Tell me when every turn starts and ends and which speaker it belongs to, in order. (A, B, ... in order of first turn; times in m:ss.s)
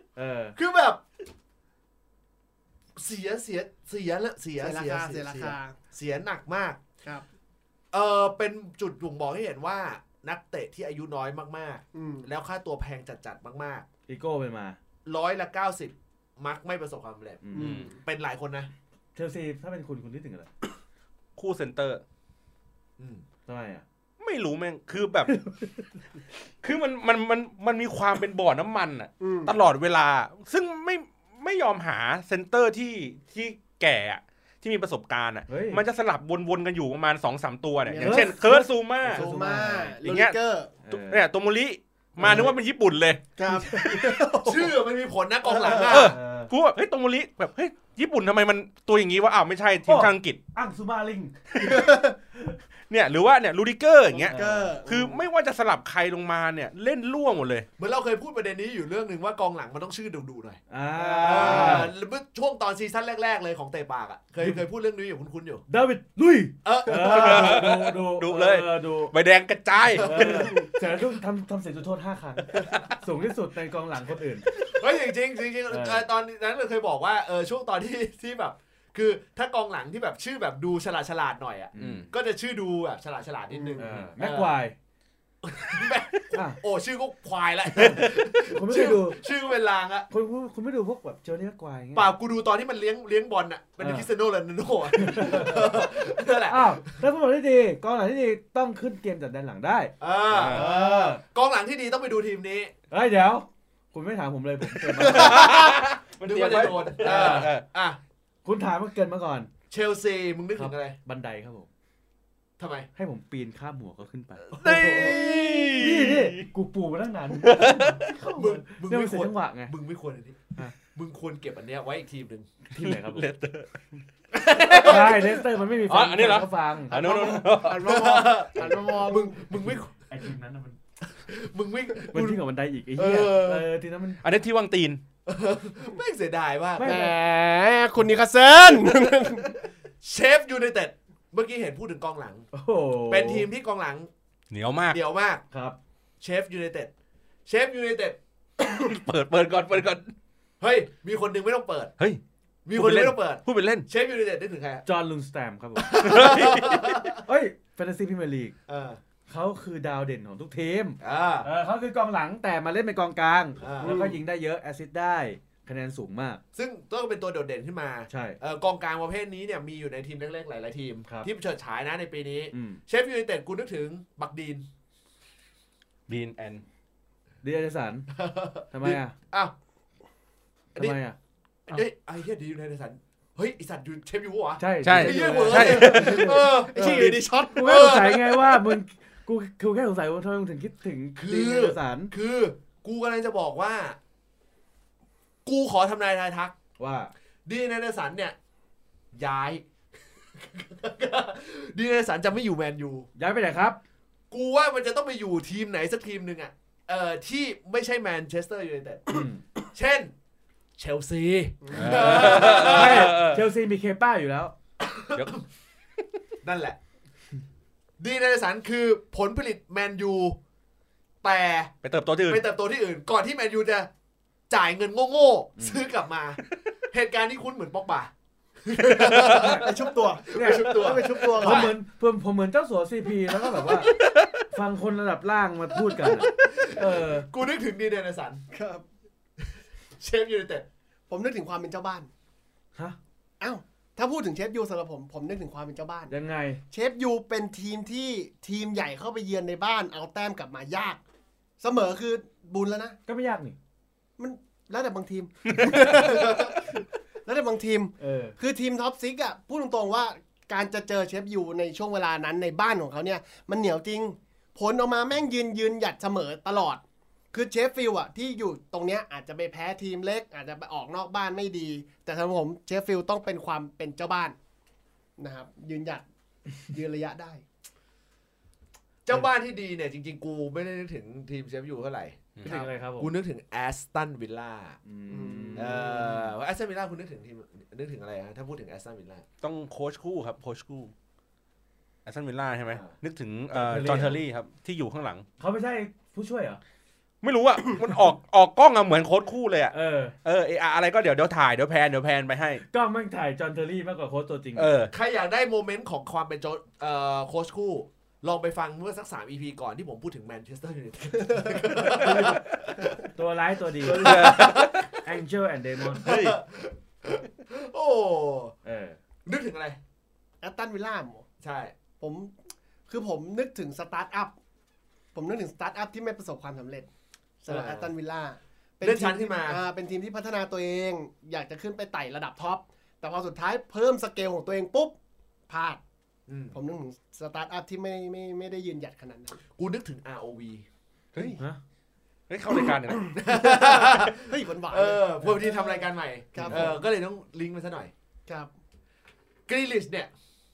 0:00.2-0:00.6 A
0:00.6-0:01.0 B
0:03.0-0:06.8 B
0:04.6-0:05.8 C
0:07.9-0:13.8 B
0:11.9-0:12.3 C
0:14.1-0:14.8 A
0:15.0-0:18.7 B
0:17.4-0:17.8 A
0:17.5-0:18.0 C
0:17.5-0:17.9 D
0:19.2-0:20.5 A
0:21.4-0:22.0 D
0:23.0-0:23.2 B
0:23.4-0:23.8 A
0:24.2-0:25.4 D
0:25.3-0:25.7 A
0:26.6-0:39.2 D
0:29.2-0:29.5 C
0:35.5-0:35.8 A
0:37.8-0:38.4 C
0:38.0-0:40.0 A
0:39.0-0:40.7 C
0:40.0-0:40.4 D
0:40.8-0:41.2 A
0:40.9-0:43.3 D
0:42.2-0:42.5 A
0:43.4-0:44.8 C
0:43.5-0:44.1 A
0:44.4-0:46.2 B
0:45.4-0:46.1 C
0:45.8-0:50.4 D
0:46.1-0:46.5 A
0:49.8-0:51.4 A
0:51.6-0:52.1 C
0:52.9-0:57.6 D
0:54.2-0:54.8 A
0:54.3-0:55.2 C
0:57.8-1:05.6 B
1:00.7-1:01.9 A
1:01.2-1:01.9 D
1:05.7-1:09.1 A
1:06.6-1:07.7 B
1:06.9-1:10.7 D
1:09.8-1:10.3 B
1:10.0-1:14.5 A
1:14.6-1:24.6 B
1:15.7-1:16.0 A
1:21.7-1:22.1 A
1:21.8-1:22.1 D
1:23.5-1:23.9 C
1:23.8-1:24.8 A
1:25.4-1:30.1 B
1:26.3-1:26.6 A
1:27.8-1:29.2 A
1:30.1-1:32.1 A
1:31.9-1:36.9 B
1:33.8-1:34.1 A
1:35.0-1:35.7 A
1:36.5-1:41.2 A
1:40.0-1:42.7 B
1:40.3-1:40.6 D
1:42.9-1:45.4 A
1:45.0-1:48.0 B
1:45.0-1:47.6 D
1:47.0-1:47.5 A
1:48.4-1:49.5 A
1:49.7-1:51.0 B
1:50.5-1:51.7 A
1:52.6-1:52.9 B
1:53.0-1:59.7 A
1:54.5-1:55.7 B
1:54.5-1:56.5 D
1:57.4-1:58.1 D
1:58.3-2:02.5 B
2:02.7-2:03.2 A
2:02.8-2:03.7 D
2:04.3-2:05.3 D
2:04.6-2:05.1 B
2:04.8-2:07.0 A
2:05.8-2:07.9 D
2:06.9-2:09.4 C
2:07.7-2:09.9 B
2:09.5-2:10.8 A
2:11.3-2:12.4 B
2:12.1-2:14.2 A
2:12.9-2:13.7 B
2:14.2-2:15.0 D
2:15.2-2:16.9 B
2:16.8-2:17.1 A
2:16.8-2:19.6 C
2:20.0-2:22.5 B
2:22.5-2:23.5 A
2:23.1-2:24.1 B
2:24.5-2:25.0 D
2:24.9-2:25.4 B
2:25.5-2:25.8 A
2:26.2-2:26.9 B
2:27.4-2:28.2 B
2:28.6-2:30.1 D
2:30.6-2:31.9 B
2:32.6-2:34.8 B
2:32.7-2:33.8 D
2:34.8-2:35.9 A
2:35.8-2:37.2 B
2:35.9-2:37.1 D
2:37.2-2:38.5 A
2:38.7-2:39.0 B
2:39.3-2:46.4 A
2:41.0-2:41.5 B
2:43.6-2:44.2 B
2:46.5-2:54.6 B
2:48.1-2:48.4 A
2:52.5-2:52.8 A
2:56.1-2:56.6 D
2:57.4-2:58.1 A
2:58.1-2:59.5 B
2:58.7-2:59.1 A
3:00.8-3:01.2 A
3:01.7-3:08.7 B
3:04.6-3:12.1 A
3:04.8-3:06.3 D
3:06.2-3:07.7 C
3:11.2-3:14.0 B
3:15.4-3:16.5 B
3:16.8-3:17.1 A
3:17.4-3:18.3 B
3:19.1-3:19.6 B
3:20.4-3:23.1 B
3:23.2-3:23.8 A
3:24.3-3:30.1 B
3:29.1-3:29.4 A
3:30.8-3:33.2 B
3:31.6-3:32.1 C
3:31.7-3:33.4 D
3:31.8-3:34.5 A
3:34.8-3:35.4 B
3:36.4-3:36.8 B
3:38.0-3:40.4 B
3:41.2-3:41.8 B
3:41.8-3:42.4 D
3:42.3-3:43.9 B
3:44.5-3:48.1 B
3:48.6-3:51.7 B
3:48.8-3:49.6 D
3:49.2-3:51.7 C
3:50.3-3:53.9 A
3:53.9-3:54.4 D
3:54.5-3:57.3 A
3:56.0-3:58.4 B
3:58.5-3:58.8 C
4:00.0-4:00.6 B
4:01.1-4:02.1 C
4:03.4-4:06.1 C
4:06.1-4:06.6 A
4:06.7-4:11.0 C
4:11.6-4:13.0 C
4:13.1-4:13.6 A
4:14.2-4:26.8 C
4:15.4-4:16.2 D
4:18.0-4:18.4 A
4:27.3-4:34.4 C
4:35.2-4:36.0 C
4:36.7-4:37.4 C
4:39.0-4:44.8 B
4:42.4-4:43.1 A
4:44.8-4:46.3 A
4:45.1-4:45.8 C
4:45.6-4:49.2 B
4:49.4-4:50.9 D
4:52.0-4:55.2 D
4:53.5-4:54.2 A
4:55.4-4:56.6 A
4:57.2-4:59.7 D
4:59.7-5:00.2 A
5:00.2-5:02.6 D
5:02.7-5:04.7 A
5:04.5-5:04.9 D
5:04.9-5:13.0 B
5:11.5-5:12.2 C
5:11.8-5:12.4 D
5:13.1-5:16.1 A
5:13.8-5:14.8 B
5:13.9-5:14.9 D
5:15.9-5:18.5 B
5:16.0-5:16.4 D
5:18.6-5:19.0 A
5:19.2-5:19.8 B
5:20.4-5:21.2 C
5:21.4-5:21.7 B
5:22.0-5:22.3 C
5:22.9-5:24.3 C
5:25.1-5:26.9 C
5:27.4-5:35.0 C
5:27.5-5:27.9 B
5:28.8-5:29.6 B
5:35.5-5:35.8 C
5:36.3-5:36.6 B
5:36.5-5:39.4 C
5:39.6-5:40.6 B
5:41.1-5:41.4 C
5:42.3-5:43.2 D
5:42.7-5:46.8 C
5:43.1-5:47.9 B
5:49.5-5:50.1 B